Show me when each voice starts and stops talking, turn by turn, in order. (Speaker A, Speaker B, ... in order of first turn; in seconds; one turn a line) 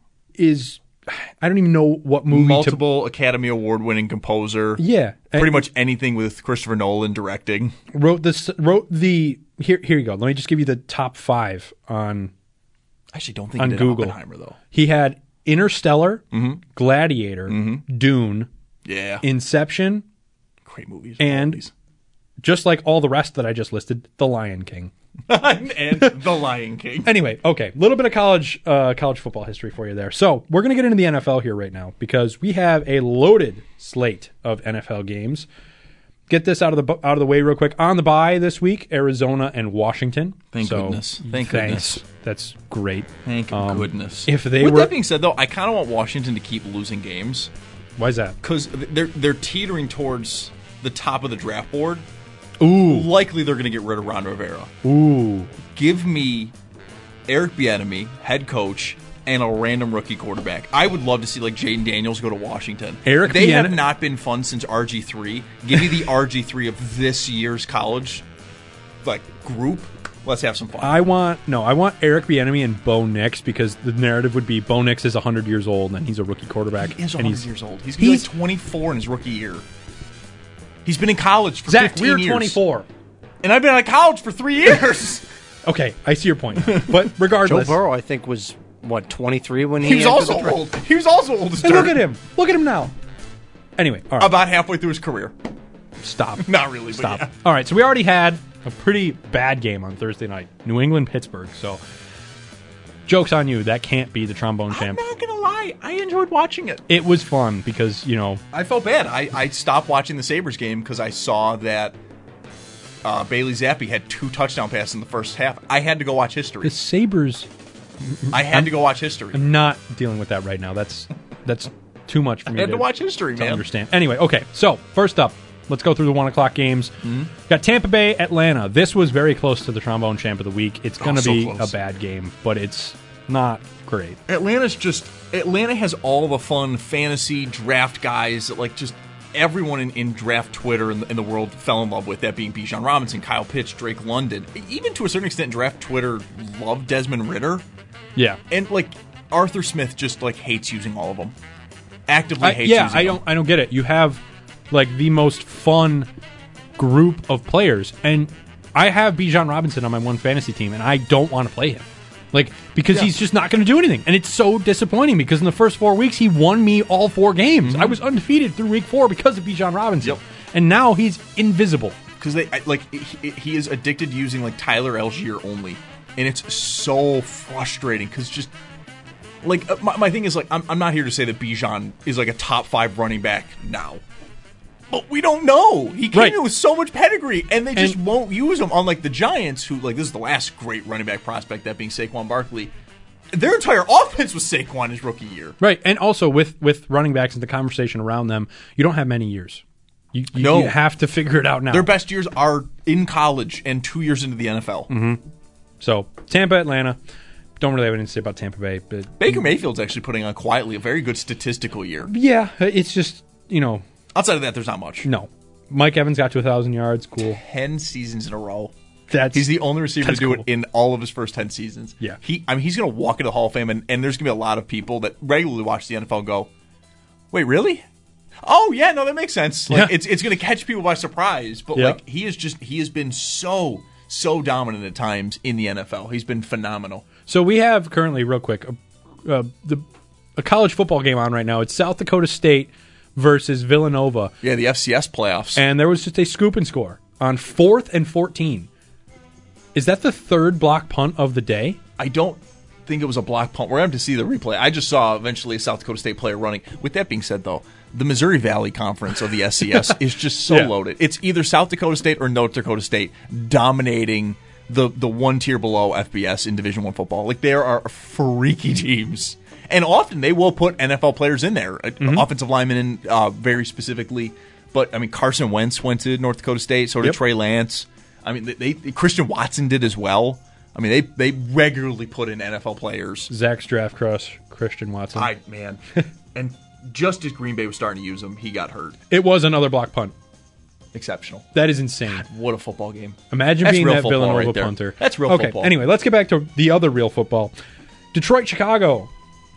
Speaker A: 0.3-2.8
Speaker B: 2.3-4.8
Speaker A: 4.8-5.7
Speaker B: 5.3-7.8
Speaker A: 7.9-12.3
Speaker B: 13.1-14.6
Speaker A: 13.6-14.2
Speaker A: 14.7-18.5
Speaker B: 16.3-16.6
Speaker B: 17.5-17.8
Speaker B: 18.8-19.2
Speaker A: 19.2-20.0
Speaker B: 20.6-21.7
Speaker A: 21.2-21.6
Speaker A: 22.4-24.9
Speaker B: 25.3-27.1
Speaker A: 27.0-35.5
Speaker A: 36.3-44.9
Speaker B: 40.5-42.0
Speaker B: 43.2-47.5
Speaker A: 48.0-48.4
Speaker B: 48.4-52.0
Speaker A: 52.6-53.1
Speaker B: 52.8-54.7
Speaker A: 54.8-55.5
Speaker B: 55.7-56.5
Speaker B: 57.3-68.2
Speaker A: 63.0-63.8
Speaker B: 69.0-71.0
Speaker A: 70.8-77.4
Speaker B: 76.8-79.6
Speaker A: 78.0-78.3
Speaker B: 80.8-82.6
Speaker A: 81.7-82.9
Speaker B: 83.4-85.2
Speaker A: 85.7-87.8
Speaker B: 86.7-87.5
Speaker C: 87.5-90.6
Speaker B: 89.8-92.0
Speaker A: 91.6-92.9
Speaker A: 93.8-94.3
Speaker B: 94.2-95.3
Speaker A: 96.0-101.8
Speaker B: 96.4-97.3
Speaker A: 103.1-105.0
Speaker B: 104.7-106.8
Speaker A: 106.9-108.4
Speaker B: 108.5-112.0
Speaker B: 113.0-116.7
Speaker A: 116.6-117.5
Speaker A: 118.1-118.7
Speaker B: 118.3-119.4
Speaker A: 119.3-134.2
Speaker B: 122.5-123.6
Speaker B: 127.0-127.3
Speaker B: 131.0-131.7
Speaker B: 134.3-147.6
Speaker A: 148.2-148.4
Speaker B: 148.5-151.3
Speaker B: 152.1-153.2
Speaker A: 152.4-156.1
Speaker A: 156.8-172.0
Speaker B: 167.6-168.0
Speaker B: 172.2-178.5
Speaker B: 179.4-184.0
Speaker B: 184.9-192.7
Speaker A: 186.1-186.4
Speaker B: 193.3-195.6
Speaker A: 195.6-199.6
Speaker A: 200.1-201.9
Speaker B: 200.3-200.8
Speaker B: 201.7-204.9
Speaker A: 204.9-205.2
Speaker A: 205.8-207.0
Speaker A: 207.6-209.4
Speaker B: 209.2-212.1
Speaker A: 212.1-213.8
Speaker B: 214.1-215.1
Speaker A: 215.0-217.4
Speaker B: 217.3-218.7
Speaker A: 219.1-220.4
Speaker B: 219.3-226.5
Speaker B: 227.3-227.8
Speaker B: 228.4-237.0
Speaker A: 229.7-229.9
Speaker A: 237.3-239.8
Speaker A: 240.4-244.3
Speaker B: 244.4-245.6
Speaker A: 245.6-248.7
Speaker A: 249.7-251.8
Speaker B: 252.0-283.3
Speaker A: 260.5-260.7
Speaker A: 272.0-272.2
Speaker A: 283.3-285.3
Speaker B: 285.1-285.8
Speaker B: 286.3-289.0
Speaker A: 289.1-290.1
Speaker B: 290.9-291.5
Speaker A: 291.5-292.2
Speaker B: 292.1-295.8
Speaker A: 293.3-297.5
Speaker A: 298.1-299.1